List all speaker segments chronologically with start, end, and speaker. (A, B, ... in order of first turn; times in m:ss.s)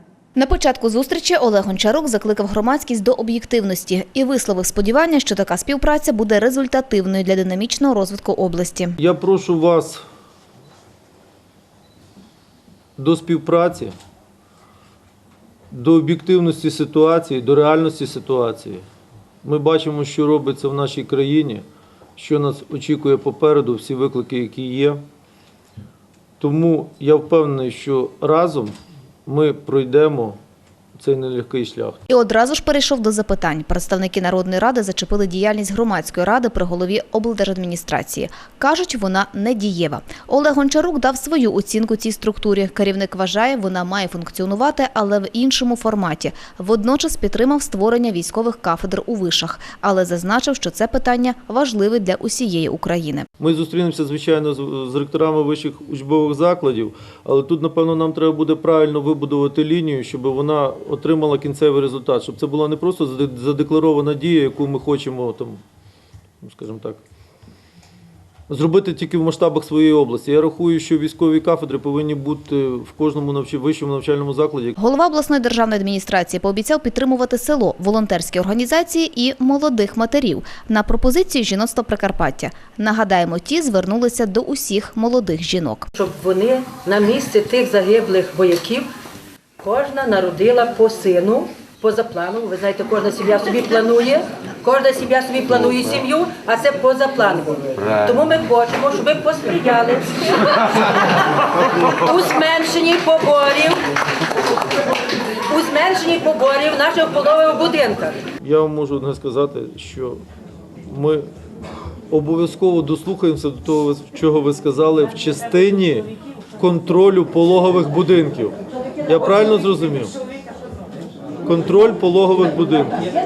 0:00.4-0:09.0 A
0:09.0-0:10.0 B
0:13.0-0:13.9 B
0:15.7-0:18.8 B
0:19.4-0:21.6 B
0:22.2-0:25.0 B
0:26.4-0:28.8 B
0:29.3-0:30.4 B
0:31.0-0:32.0 B
0:32.1-0:53.3 A
0:53.4-1:05.6 B
1:06.4-1:07.0 B
1:08.5-1:14.8 B
1:14.8-1:25.9 A
1:26.0-1:28.9 C
1:29.6-1:41.1 C
1:41.8-1:43.8 C
1:45.4-1:48.2 C
1:48.4-1:50.2 B
1:50.9-1:51.3 B
1:52.1-2:00.2 B
2:01.4-2:03.0 B